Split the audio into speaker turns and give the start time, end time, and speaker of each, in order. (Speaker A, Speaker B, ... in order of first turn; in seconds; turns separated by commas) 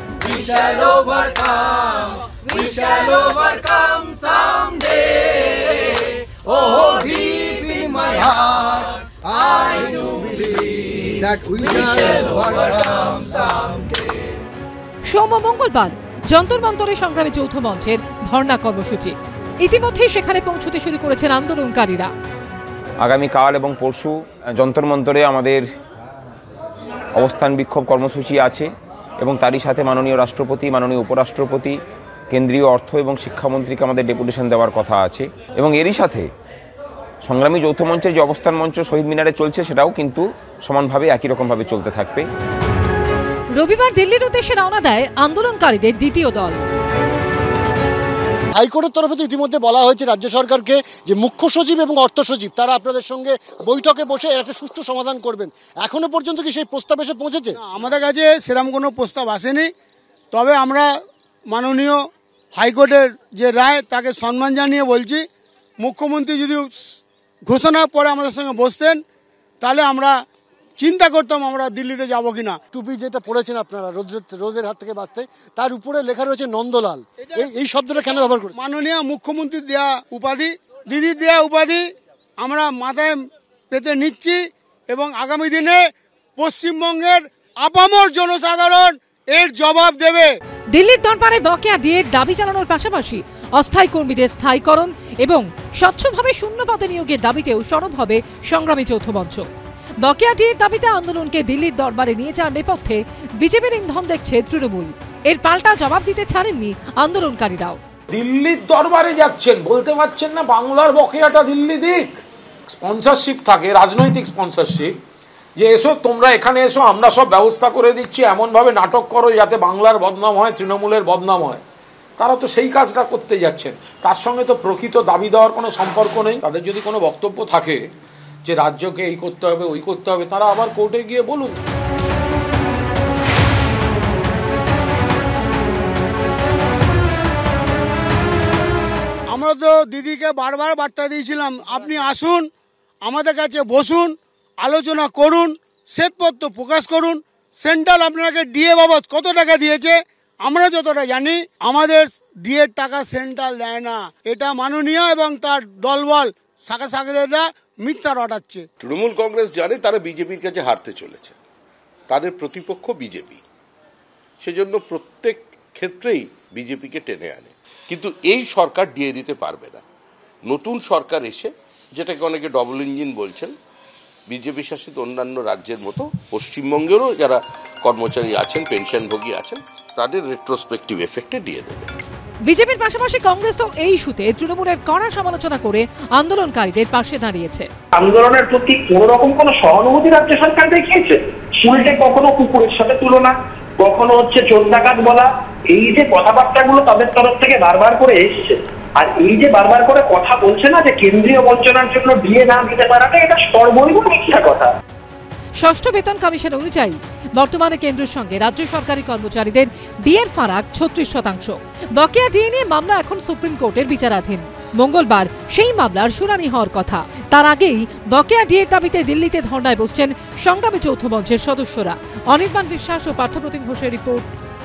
Speaker A: 0.3-1.9, Speaker A: 2.5-5.2, Speaker A: 6.7-8.8, Speaker A: 9.5-10.6, Speaker A: 11.2-13.7, Speaker B: 15.1-22.1, Speaker C: 23.0-25.7, Speaker C: 27.2-31.8, Speaker C: 32.3-36.3, Speaker C: 37.2-42.3, Speaker B: 43.5-46.6, Speaker D: 48.5-57.6, Speaker E: 57.6-59.7, Speaker E: 60.3-60.9, Speaker E: 61.5-62.0, Speaker E: 62.5-65.2, Speaker E: 65.8-66.7, Speaker E: 67.5-69.0, Speaker E: 69.6-70.2, Speaker E: 70.8-72.6, Speaker D: 72.7-78.6, Speaker E: 78.5-81.8, Speaker E: 82.4-83.2, Speaker E: 83.7-85.8, Speaker E: 86.4-90.3, Speaker B: 90.7-99.5, Speaker B: 100.0-107.8, Speaker F: 108.1-112.1, Speaker F: 112.7-115.0, Speaker F: 115.6-121.6, Speaker F: 122.2-127.8, Speaker F: 128.4-131.6, Speaker E: 139.3-142.5, Speaker E: 143.0-158.7, Speaker G: 158.8-161.4, Speaker G: 162.1-163.4, Speaker G: 164.4-169.8, Speaker G: 170.5-173.5, Speaker G: 174.3-181.9, Speaker B: 182.4-187.7, Speaker H: 187.9-204.7, Speaker B: 205.6-224.3